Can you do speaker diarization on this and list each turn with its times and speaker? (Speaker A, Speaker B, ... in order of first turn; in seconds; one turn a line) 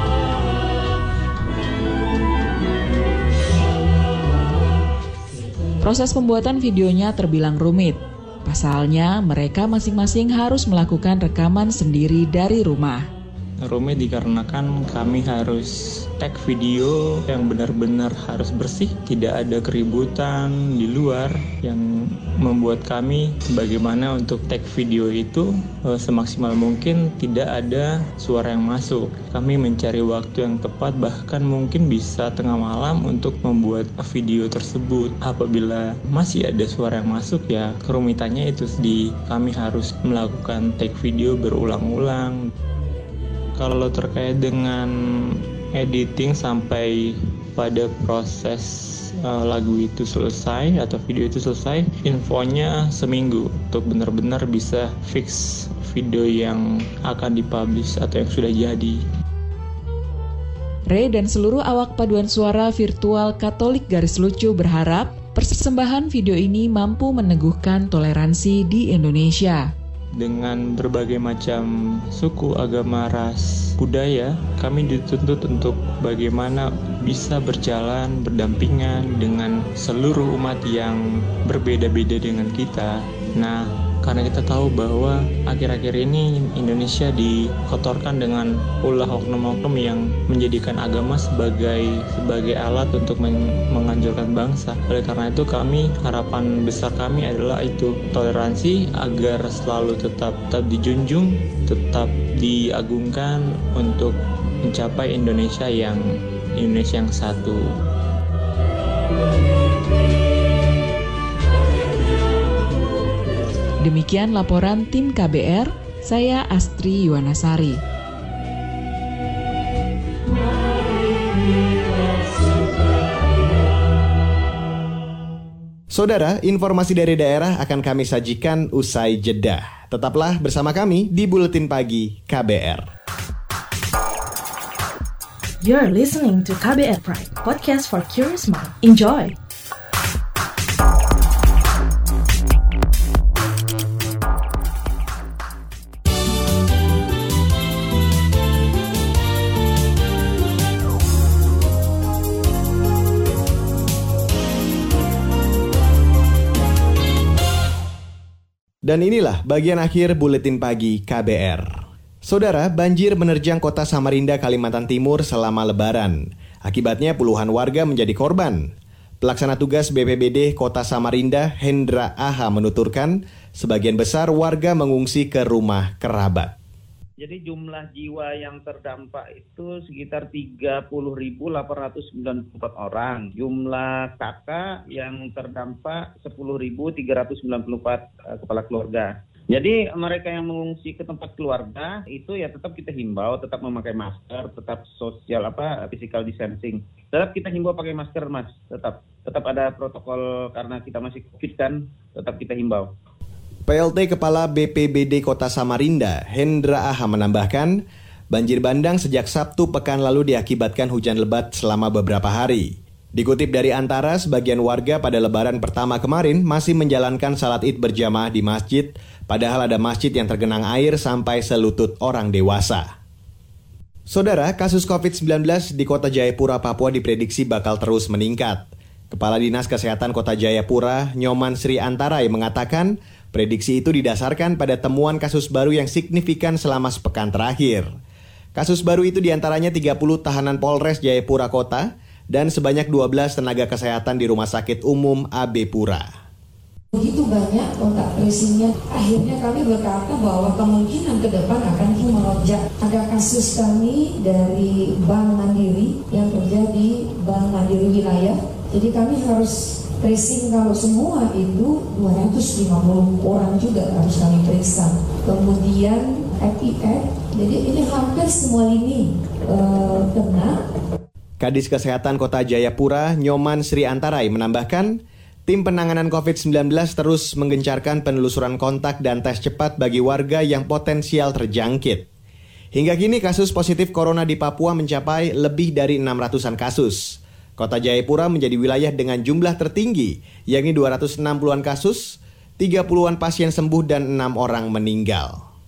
Speaker A: 5.8-13.1
Speaker B: 13.6-42.5
Speaker B: 43.5-59.0
Speaker A: 60.9-69.7
Speaker B: 70.1-107.7
Speaker A: 113.8-117.8
Speaker C: 125.9-132.9
Speaker D: 135.6-139.4
Speaker C: 158.8-176.5
Speaker E: 177.2-202.9
Speaker C: 203.7-222.9
Speaker C: 224.1-237.9
Speaker C: 238.5-246.1
Speaker F: 246.9-270.6
Speaker C: 271.4-282.1
Speaker C: 282.7-295.4